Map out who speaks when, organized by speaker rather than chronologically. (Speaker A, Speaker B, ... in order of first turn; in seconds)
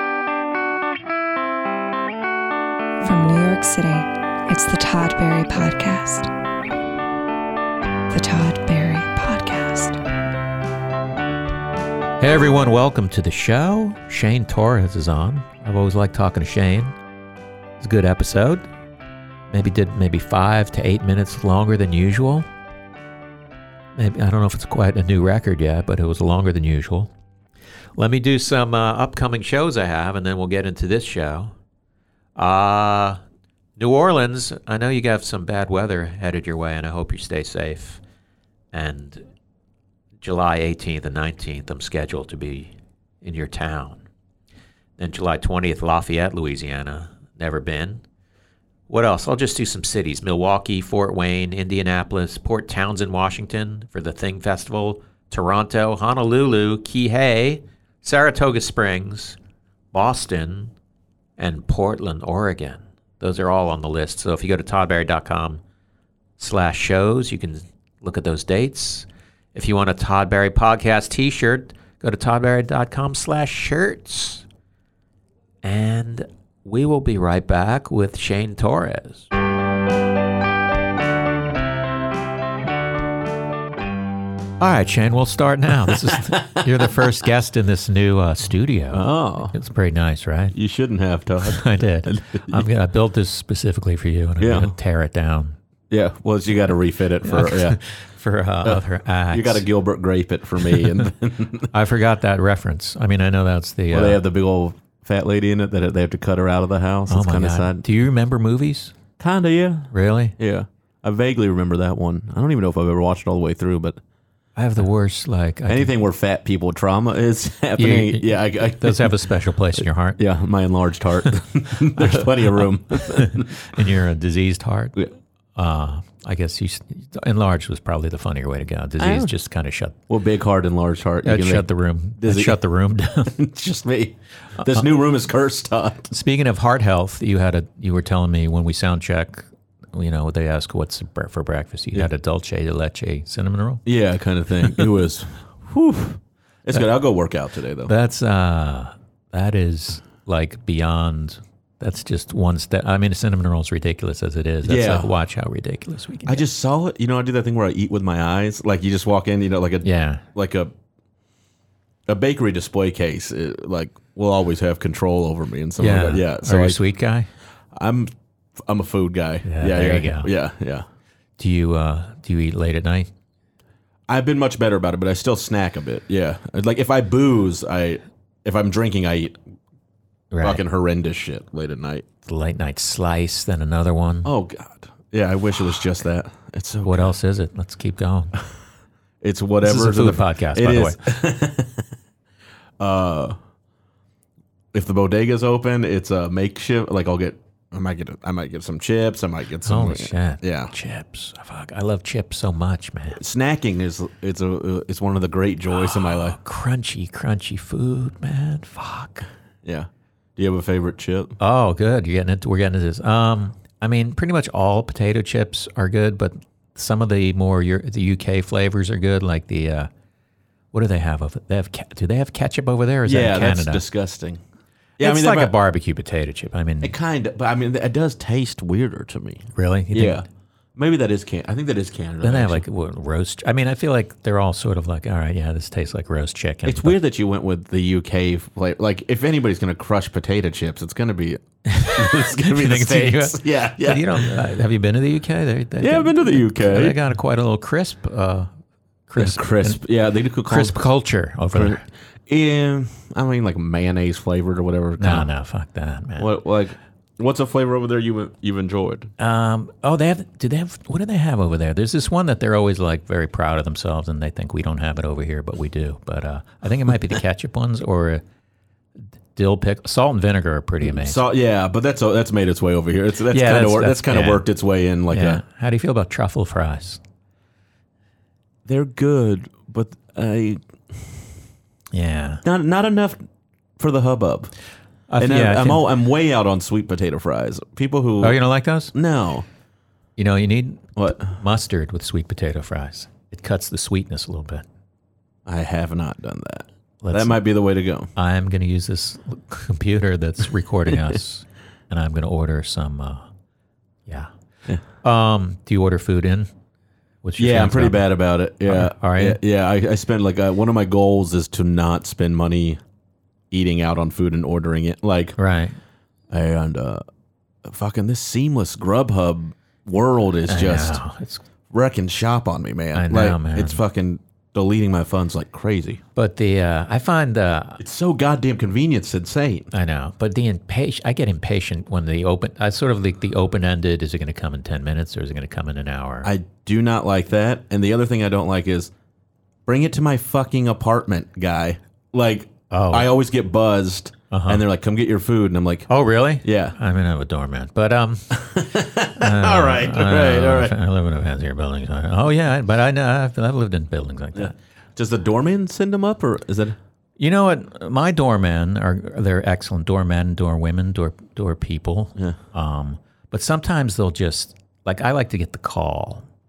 Speaker A: 3.0-6.3, 8.1-10.0
Speaker B: 12.2-16.9, 17.8-18.7, 19.5-22.5, 23.9-27.1, 28.0-31.5, 32.4-33.2, 33.8-38.0, 38.7-39.2, 40.2-44.0, 45.0-48.0, 48.9-59.4, 59.9-60.7, 61.4-65.6, 66.4-74.4, 75.6-79.3, 84.6-90.5, 91.4-95.5, 97.2-99.7, 100.7-101.1, 101.7-104.2, 107.1-109.0, 109.9-110.3, 114.5-115.9, 117.8-120.2, 122.0-125.0, 125.5-130.0, 131.2-133.3, 136.1-143.8, 147.8-156.4, 159.8-160.2, 165.8-167.3, 169.4-170.3, 171.4-173.1, 180.3-180.6, 182.2-184.3, 186.8-188.3, 189.6-191.0, 199.6-203.2, 206.0-209.3, 211.4-219.9, 220.7-223.8, 225.0-226.9, 229.5-230.2, 232.2-237.0, 241.7-248.5, 249.1-249.8, 250.5-251.8, 255.0-256.3, 259.2-268.2, 269.3-271.2, 273.3-274.4, 275.1-277.0, 281.9-282.4, 285.1-285.8, 288.2-288.9, 290.2-294.6, 297.0-297.4, 298.1-303.3, 304.9-306.5, 307.2-308.1, 308.6-309.4, 315.4-315.8, 320.5-321.4, 322.9-323.8, 326.1-327.8, 329.7-336.3, 342.7-343.1, 344.3-344.6, 345.9-348.4, 349.0-354.6, 357.2-366.2
Speaker C: 85.9-86.9, 88.9-89.6, 90.5-92.7, 94.4-94.7, 95.9-97.8, 98.6-101.7, 103.9-107.8, 109.2-114.0, 115.7-119.1, 120.2-123.5, 129.0-129.3, 130.1-131.7, 132.2-132.6, 133.2-136.1, 143.8-147.9, 154.6-155.1, 156.2-160.7, 162.1-166.8, 167.7-170.8, 174.1-179.4, 180.4-182.0, 184.2-187.1, 189.2-191.9, 192.8-193.3, 194.7-200.7, 203.2-206.4, 209.6-211.4, 223.0-224.4, 225.0-225.5, 226.8-230.2, 230.8-232.6, 236.7-244.4, 245.8-247.0, 249.2-250.8, 251.5-255.3, 256.2-259.1, 270.8-275.4, 278.6-281.3, 282.4-283.2, 283.8-284.5, 285.2-288.4, 288.9-289.4, 290.9-291.3, 295.4-298.1, 307.4-312.8, 313.5-315.4, 316.3-317.0, 317.6-321.0, 321.7-326.0, 327.8-329.7, 336.2-338.9, 339.6-345.9, 346.4-346.8, 348.3-350.7, 354.3-356.8